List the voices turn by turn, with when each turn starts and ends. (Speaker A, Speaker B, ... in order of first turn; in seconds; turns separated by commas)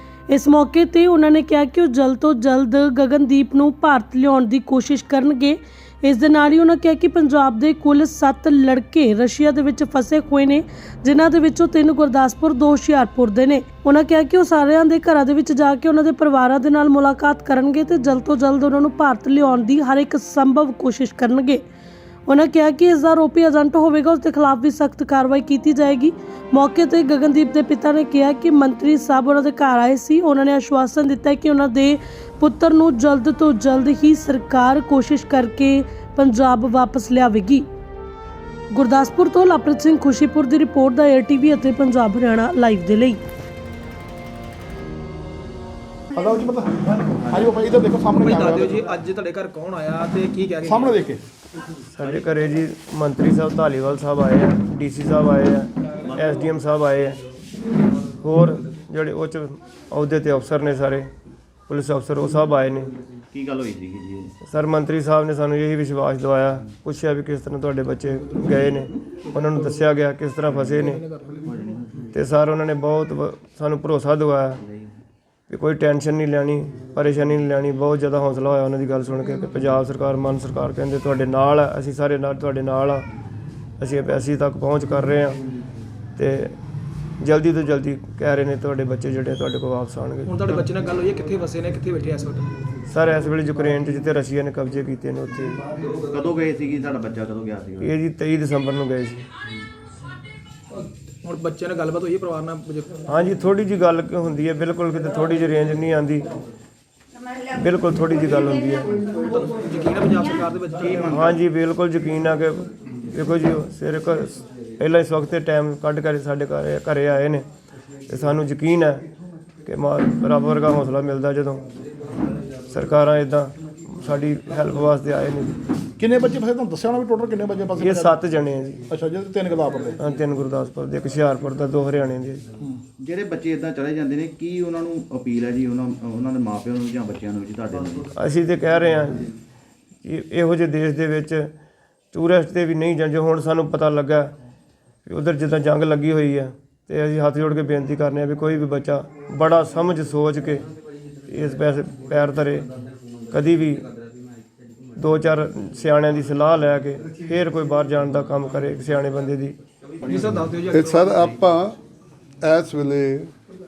Speaker A: 0.3-21.6, Speaker A: 22.3-37.7, Speaker A: 38.7-43.2, Speaker B: 46.1-48.9, Speaker C: 48.2-51.1, Speaker B: 50.6-51.2, Speaker D: 51.9-57.2, Speaker D: 58.2-61.1, Speaker D: 61.7-62.9, Speaker E: 63.3-64.3, Speaker D: 64.5-71.0, Speaker C: 70.6-71.4, Speaker E: 71.4-72.1, Speaker D: 72.1-74.6, Speaker D: 75.5-83.1, Speaker D: 83.8-85.4, Speaker D: 86.2-86.6, Speaker D: 87.2-90.3, Speaker C: 90.2-92.5, Speaker D: 92.9-95.6, Speaker E: 96.0-97.9, Speaker D: 97.8-99.3, Speaker C: 101.2-103.0, Speaker D: 103.1-106.3, Speaker D: 107.5-108.9, Speaker C: 109.2-111.4, Speaker E: 110.9-111.2, Speaker D: 111.0-117.5, Speaker D: 118.1-119.0, Speaker D: 119.7-121.7, Speaker D: 122.7-125.6, Speaker B: 126.0-128.1, Speaker D: 127.8-128.8, Speaker B: 128.9-130.0, Speaker D: 130.0-132.4, Speaker E: 133.0-138.1, Speaker D: 138.1-139.3, Speaker D: 140.0-141.5, Speaker D: 142.1-144.3, Speaker D: 145.1-150.7, Speaker D: 151.3-152.7, Speaker D: 153.3-153.9, Speaker D: 155.0-159.6, Speaker E: 160.0-160.6, Speaker C: 160.1-161.3, Speaker F: 160.7-161.8, Speaker F: 162.4-163.3